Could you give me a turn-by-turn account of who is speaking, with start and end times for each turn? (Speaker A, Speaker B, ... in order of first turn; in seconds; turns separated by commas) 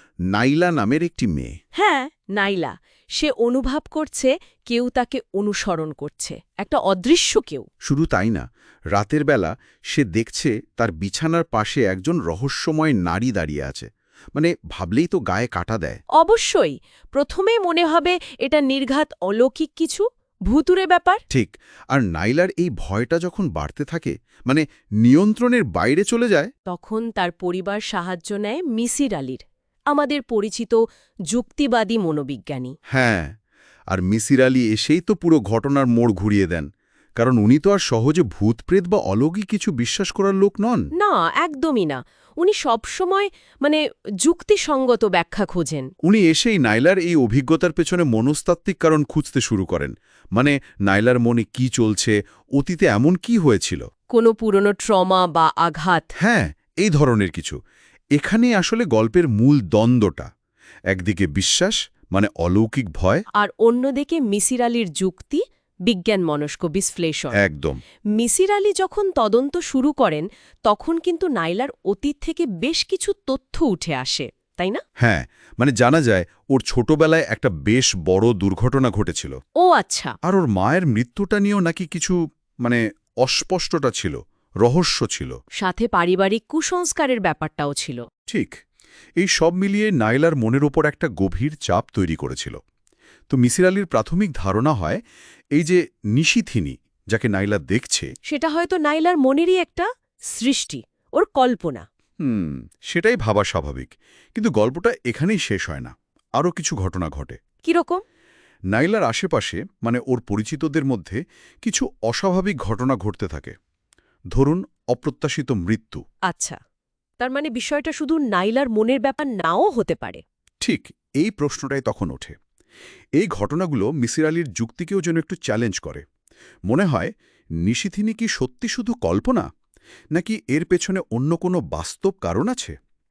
Speaker A: 0.3-1.5, Speaker B: 1.7-7.7, Speaker A: 7.8-16.0, Speaker B: 16.2-21.2, Speaker A: 21.3-26.5, Speaker B: 26.7-32.7, Speaker A: 32.9-33.3, Speaker A: 33.9-40.9, Speaker B: 41.0-45.9, Speaker A: 46.0-53.8, Speaker B: 54.1-56.1, Speaker A: 56.2-57.6, Speaker A: 58.1-60.3, Speaker A: 60.9-63.2, Speaker B: 63.4-67.4, Speaker A: 67.3-67.8, Speaker B: 68.2-74.8, Speaker A: 75.0-79.4, Speaker B: 79.6-80.1, Speaker A: 80.2-85.4, Speaker B: 85.6-88.0, Speaker A: 88.3-88.6, Speaker A: 89.2-92.6, Speaker A: 93.3-95.0, Speaker A: 95.5-98.1, Speaker B: 98.3-101.8, Speaker A: 102.2-107.4, Speaker B: 107.6-108.0, Speaker A: 108.7-113.5, Speaker A: 114.3-116.0, Speaker B: 116.3-116.6, Speaker B: 117.2-120.2, Speaker A: 120.6-122.3, Speaker A: 123.2-126.0, Speaker A: 126.7-127.1, Speaker A: 127.6-129.4, Speaker A: 130.1-132.7